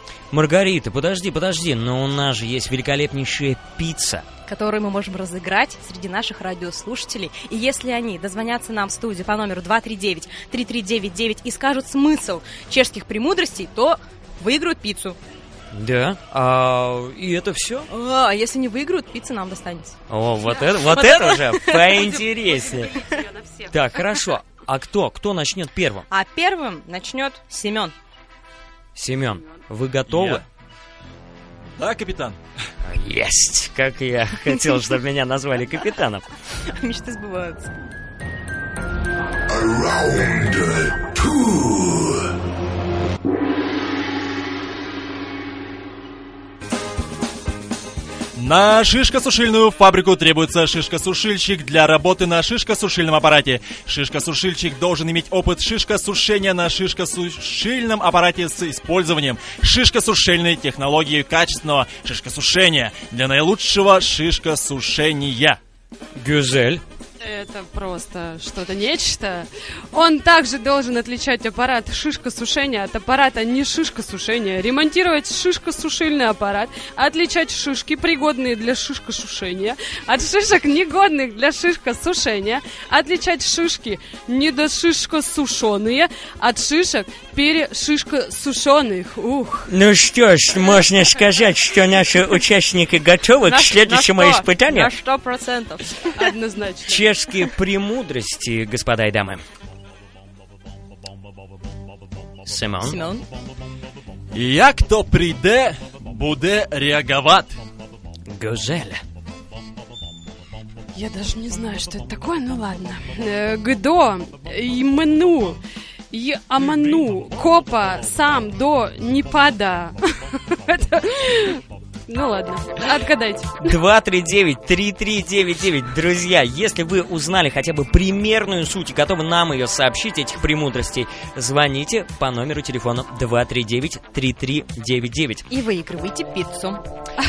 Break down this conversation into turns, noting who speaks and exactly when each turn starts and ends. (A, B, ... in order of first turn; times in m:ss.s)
0:00.3-0:04.3 A
0:04.5-0:15.2 B
0:15.7-0:17.9 A
0:17.9-0:20.0 B
0:20.1-0:23.0 A
0:20.5-0:21.2 C
0:20.8-0:22.1 B
0:21.7-0:24.2 C
0:23.7-0:26.1 A
0:26.1-0:28.0 B
0:29.0-0:30.4 A
0:30.1-0:30.5 D
0:31.8-0:32.4 D
0:32.8-0:36.3 A
0:36.7-0:37.7 B
0:39.5-0:42.2 E
0:48.4-1:05.6 D
1:06.2-1:06.8 A
1:07.2-1:29.7 C
1:29.7-1:34.9 A
1:33.4-1:36.2 B
1:36.2-1:37.1 C
1:36.8-1:39.4 A
1:42.4-1:43.0 A
1:42.8-1:43.3 B
1:44.3-1:47.6 D
1:48.3-1:49.0 A
1:51.0-1:55.6 C
1:56.1-2:03.8 C
2:03.6-2:15.5 A
2:15.5-2:16.8 B